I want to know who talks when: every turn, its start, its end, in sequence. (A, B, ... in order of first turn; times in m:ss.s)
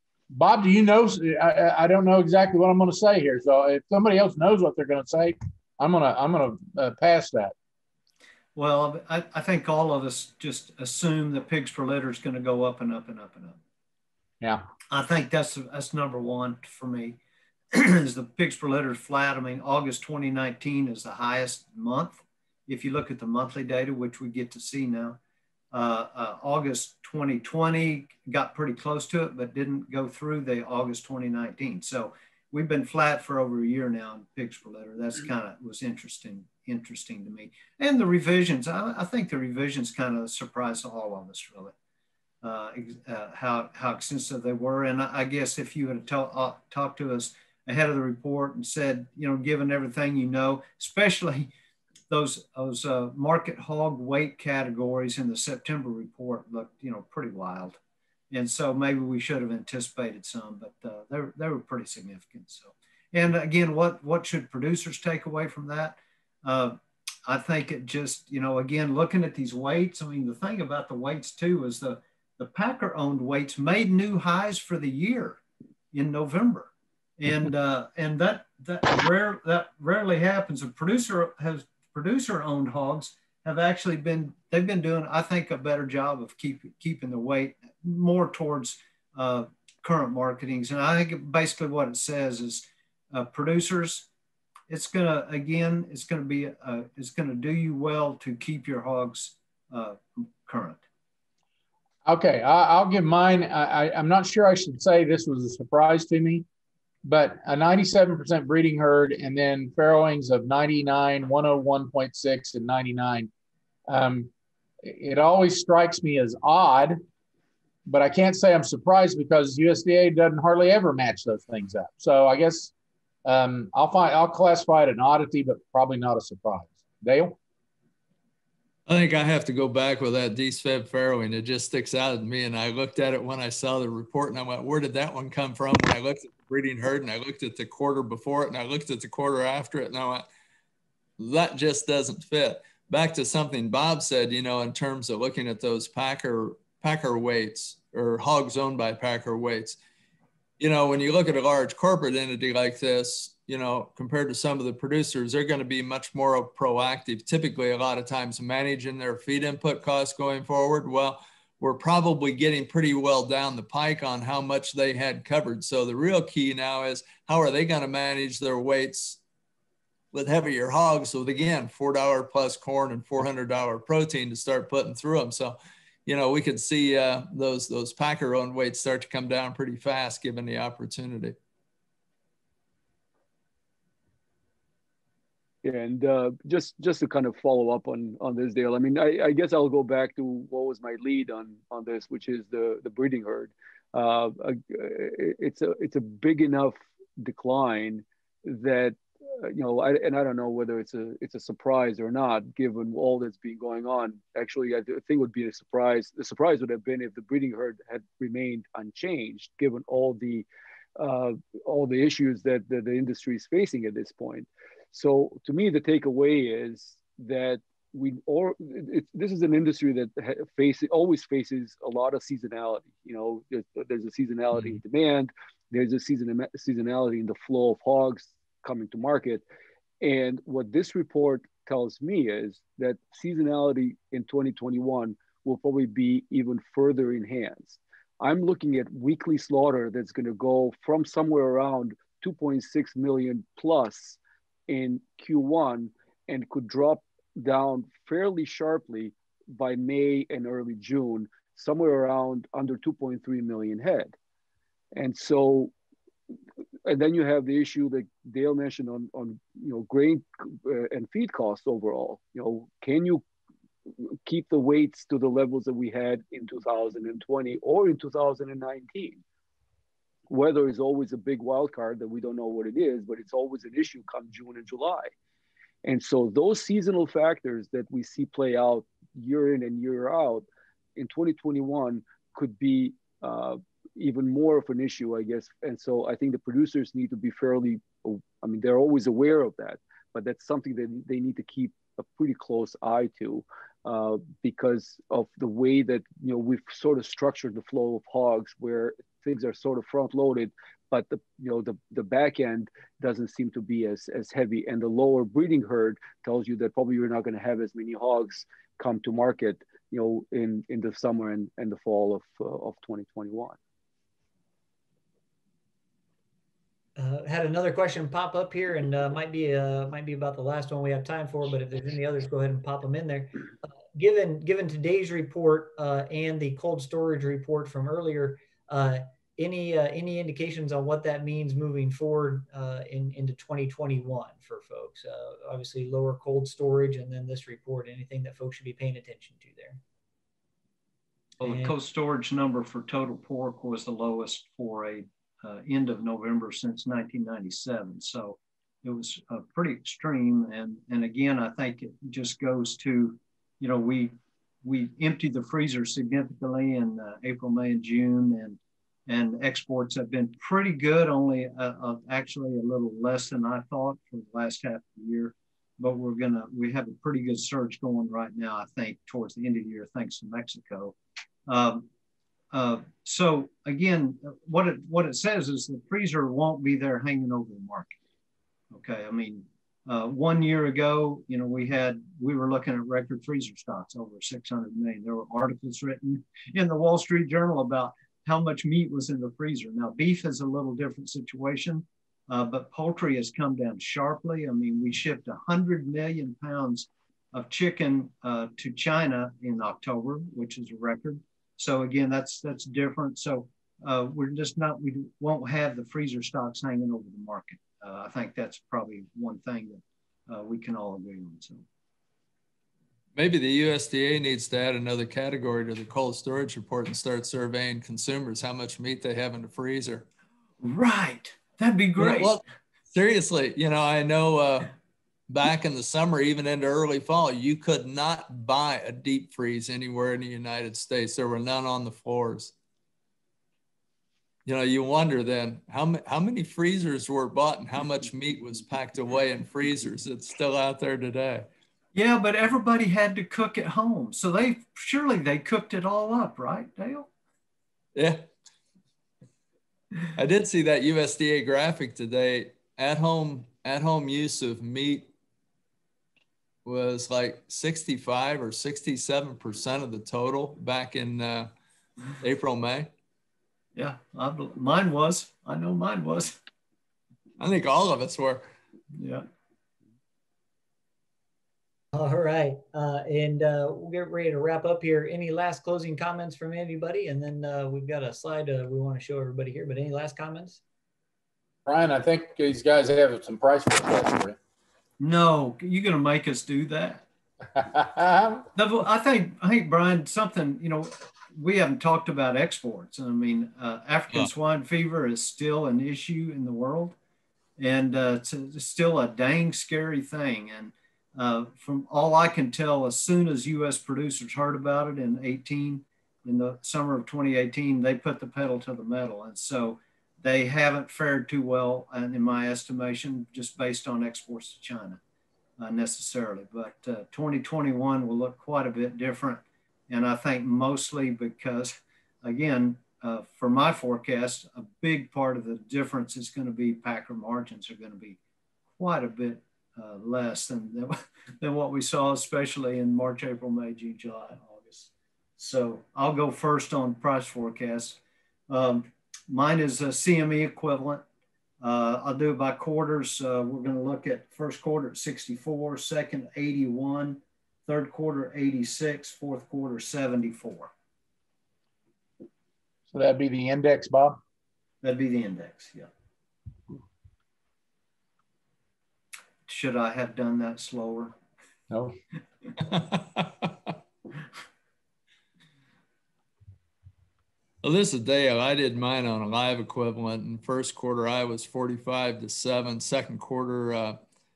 0:00.3-0:07.5 A
0:08.5-0:13.6 B
0:14.4-0:14.6 A
0:14.9-0:17.2 B
0:17.7-0:25.2 B
0:25.7-0:41.7 B
0:42.4-0:51.5 B
0:52.1-0:57.8 B
0:58.3-1:15.4 B
1:15.9-1:34.1 B
1:34.7-1:40.8 B
1:42.0-1:46.4 A
1:47.0-1:53.3 A
1:53.9-1:54.3 A
1:54.8-1:57.0 A
1:57.8-2:02.7 A
2:03.2-2:07.4 A
2:08.9-2:20.2 C
2:21.2-2:29.8 C
2:30.6-2:49.2 C
2:50.1-3:01.4 C
3:05.6-3:30.4 D
3:31.0-3:49.4 D
3:50.0-4:14.1 D
4:14.9-4:15.7 D
4:16.8-4:23.2 D
4:23.9-4:29.2 D
4:30.3-4:35.1 D
4:35.8-5:13.6 D
5:17.0-5:39.8 E
5:41.4-6:10.9 B
5:41.4-5:41.7 E
6:11.5-6:11.9 B
6:12.5-6:17.9 B
6:18.7-6:51.6 B
6:53.1-7:00.0 C
7:00.6-7:02.4 B
7:02.0-7:04.7 C
7:05.3-7:12.5 C
7:14.4-7:21.5 C
7:21.9-7:27.1 B
7:27.9-7:28.2 C
7:30.1-7:35.1 C
7:36.6-7:41.5 C
7:42.2-7:42.9 C
7:43.7-7:46.4 B
7:47.4-7:48.4 C
7:48.9-7:49.2 B
7:51.9-8:00.6 E
8:01.6-8:04.4 A
8:05.0-8:07.0 B
8:07.6-8:08.4 A
8:08.5-8:17.0 B
8:17.6-8:35.0 B
8:35.6-8:48.2 B
8:48.8-9:01.0 B
9:01.6-9:10.7 B
9:12.9-9:14.2 A
9:14.8-9:15.9 B
9:19.5-9:21.2 B
9:21.7-9:22.0 A
9:22.6-9:23.5 C
9:27.6-9:34.0 C